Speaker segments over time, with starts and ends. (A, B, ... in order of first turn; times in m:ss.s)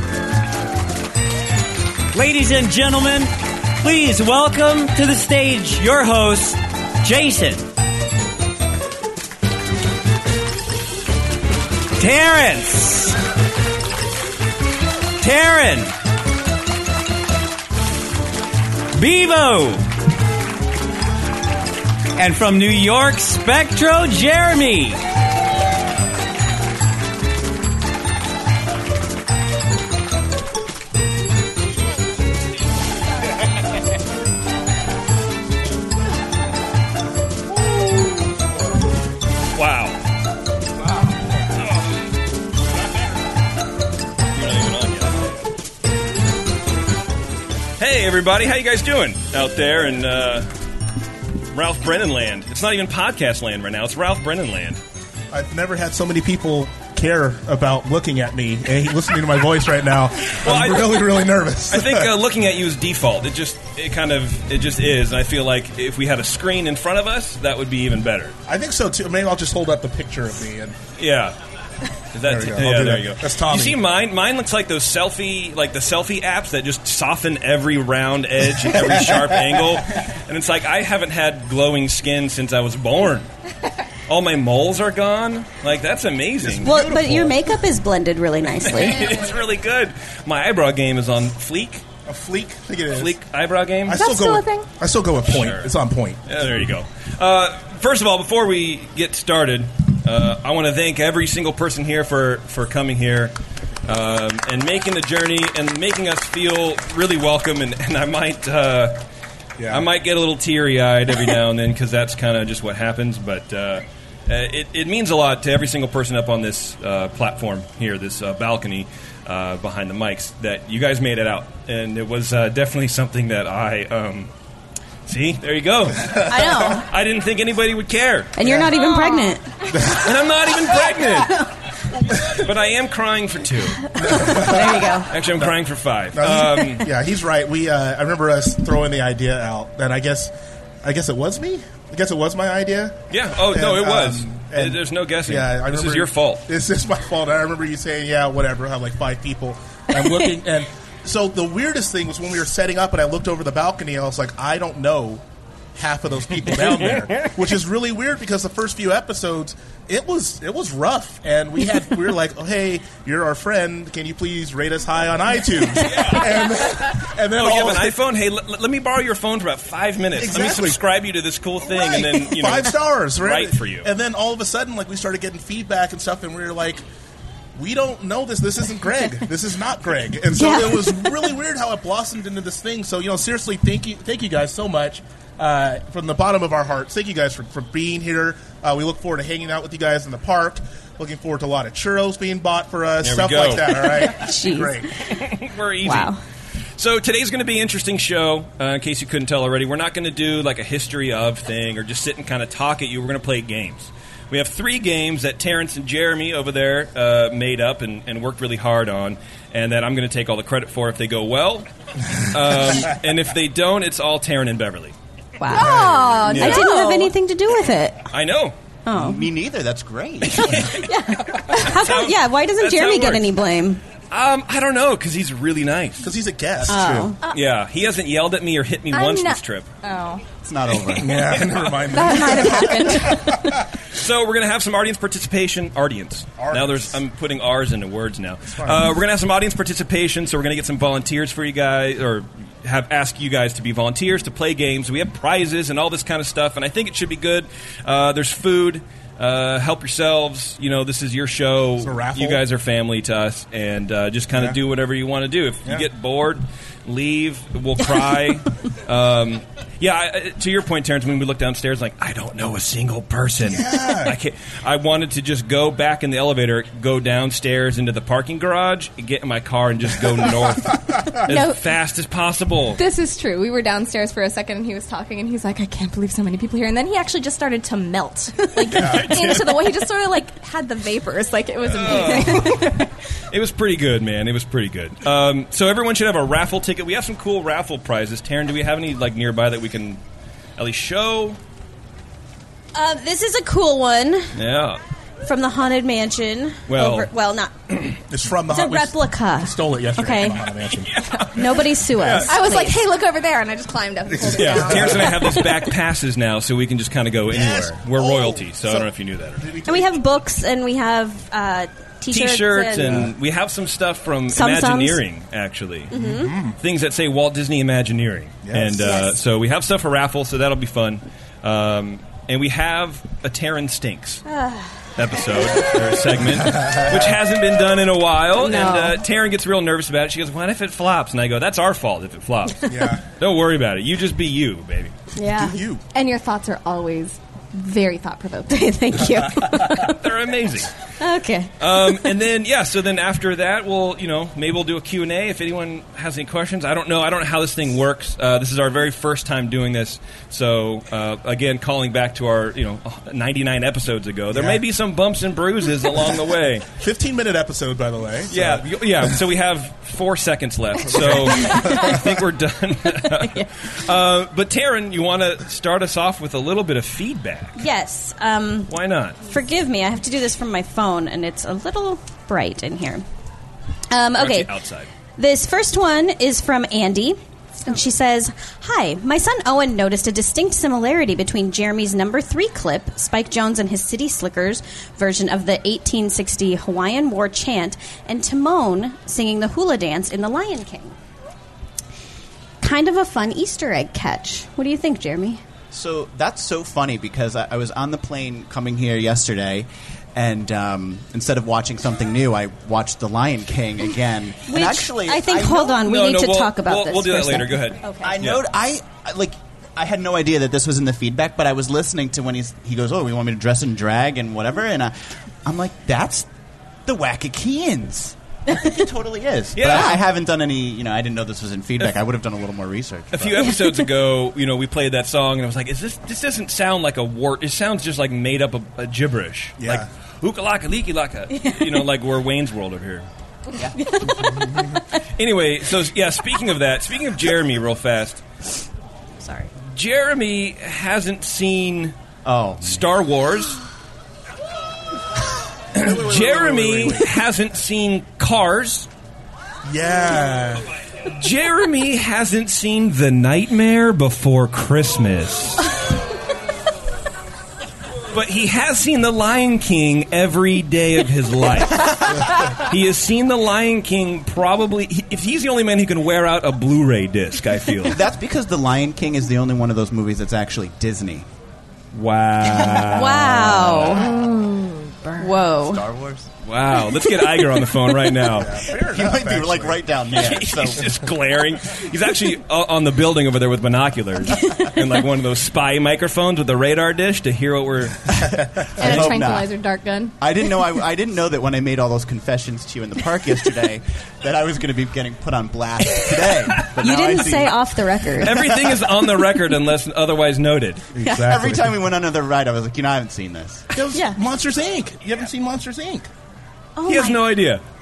0:02.1-0:07.6 A
0:12.0-0:13.2 A
0:15.2-0:15.9 A
0:18.9-0:19.9 A
0:22.1-0:25.0 A
0:39.5-0:40.0 B
0:44.3-0:45.2 B
0:47.8-0:50.5 B
0:51.5-0:54.8 B
0:55.3-1:02.1 C
1:00.4-1:08.3 B
1:08.5-1:10.7 C
1:11.0-1:11.4 B
1:12.1-1:23.3 B
1:12.2-1:13.8 C
1:24.1-1:27.2 B
1:26.4-1:27.3 C
1:26.6-1:29.1 D
1:28.6-1:31.8 B
1:32.1-1:33.1 C
1:32.9-1:34.1 B
1:33.8-1:36.2 C
1:33.9-1:34.7 E
1:35.3-1:35.7 B
1:36.2-1:43.3 B
1:43.8-1:49.0 B
1:49.6-1:49.9 C
1:49.7-2:04.3 B
2:05.1-2:08.3 B
2:06.2-2:06.7 C
2:06.2-2:06.8 E
2:08.4-2:09.4 D
2:08.4-2:08.7 C
2:08.8-2:09.4 E
2:09.7-2:10.1 C
2:09.8-2:11.4 B
2:12.3-2:14.5 B
2:14.0-2:15.5 C
2:14.0-2:15.1 D
2:15.1-2:16.9 B
2:16.1-2:20.3 C
2:20.8-2:23.0 C
2:23.1-2:26.4 B
2:23.5-2:35.2 C
2:35.8-2:47.9 C
2:45.7-2:53.9 B
2:50.2-2:50.8 C
2:51.6-2:56.8 C
2:57.5-3:14.9 C
3:00.3-3:01.1 D
3:13.0-3:14.1 B
3:14.1-3:14.8 D
3:15.1-3:16.1 B
3:15.8-3:16.2 D
3:16.8-3:31.6 B
3:32.3-3:34.9 B
3:35.4-3:38.1 D
3:35.5-3:37.1 E
3:35.5-3:36.4 C
3:36.2-3:36.6 B
3:38.1-3:38.5 B
3:38.8-3:39.3 D
3:38.9-3:40.6 F
3:40.3-3:40.8 B
3:40.7-3:43.8 D
3:41.6-3:43.3 B
3:44.1-3:46.1 B
3:46.0-3:47.1 C
3:46.7-3:47.2 D
3:47.3-3:49.7 B
3:48.9-3:50.2 E
3:50.4-3:51.3 F
3:51.0-3:53.5 C
3:51.9-3:53.5 E
3:53.9-4:32.8 B
3:56.4-3:57.0 C
3:58.5-3:58.9 C
4:11.8-4:12.4 C
4:23.4-4:24.1 C
4:31.3-4:31.6 E
4:32.8-4:42.9 E
4:38.7-4:39.5 C
4:38.7-4:39.6 B
4:41.6-4:42.8 B
4:43.3-4:50.0 B
4:50.6-4:51.4 B
4:52.7-4:54.3 D
4:54.3-4:54.8 B
4:55.2-4:57.5 D
4:56.7-4:57.1 B
4:58.1-5:01.0 C
4:58.5-5:00.4 D
5:00.9-5:01.3 B
5:01.3-5:02.7 D
5:01.9-5:02.3 B
5:02.2-5:05.4 E
5:04.1-5:05.4 C
5:04.3-5:09.4 B
5:07.3-5:10.0 C
5:09.6-5:13.1 D
5:12.1-5:15.9 B
5:14.3-5:15.0 D
5:15.9-5:16.3 D
5:16.0-5:16.6 C
5:16.6-5:24.2 B
5:18.4-5:19.0 C
5:24.3-5:24.7 D
5:25.0-5:34.9 B
5:26.5-5:27.1 C
5:28.4-5:29.0 D
5:32.7-5:33.0 C
5:35.2-5:35.5 D
5:35.4-5:35.8 C
5:35.9-5:39.3 E
5:38.5-5:40.0 D
5:39.7-5:40.7 B
5:41.0-5:42.1 D
5:41.6-5:56.6 B
5:54.3-5:54.6 C
5:56.8-5:59.1 C
5:58.3-6:07.6 B
6:00.9-6:02.0 C
6:07.6-6:08.7 D
6:08.7-6:09.2 B
6:09.3-6:13.0 D
6:13.9-6:14.5 D
6:14.2-6:14.9 B
6:15.2-6:31.0 D
6:32.6-6:35.4 D
6:35.7-6:45.8 F
6:44.5-6:47.9 D
6:45.8-6:48.4 B
6:48.0-6:56.3 F
6:56.8-7:03.5 F
6:59.5-7:00.0 B
7:03.1-7:13.1 B
7:09.6-7:09.8 C
7:15.2-7:18.2 B
7:19.2-7:19.5 D
7:19.7-7:21.9 B
7:22.2-7:22.9 F
7:22.6-7:23.6 B
7:25.7-7:28.9 B
7:25.8-7:27.1 C
7:29.6-7:30.7 C
7:31.2-7:35.7 B
7:38.1-7:48.0 B
7:47.9-7:51.2 F
7:51.9-7:54.0 B
7:52.9-7:54.1 D
7:53.9-7:55.8 E
7:55.2-7:55.8 D
7:55.6-7:56.3 F
7:56.4-7:58.6 B
7:58.3-8:00.3 C
7:58.7-8:01.0 F
8:00.1-8:08.1 B
8:08.2-8:08.9 C
8:08.8-8:09.5 F
8:08.8-8:10.1 E
8:10.2-8:17.7 F
8:16.8-8:18.3 D
8:18.2-8:20.9 B
8:18.2-8:18.8 F
8:20.9-8:21.7 C
8:21.0-8:23.6 F
8:23.7-8:26.1 C
8:26.8-8:27.2 D
8:26.8-8:27.6 B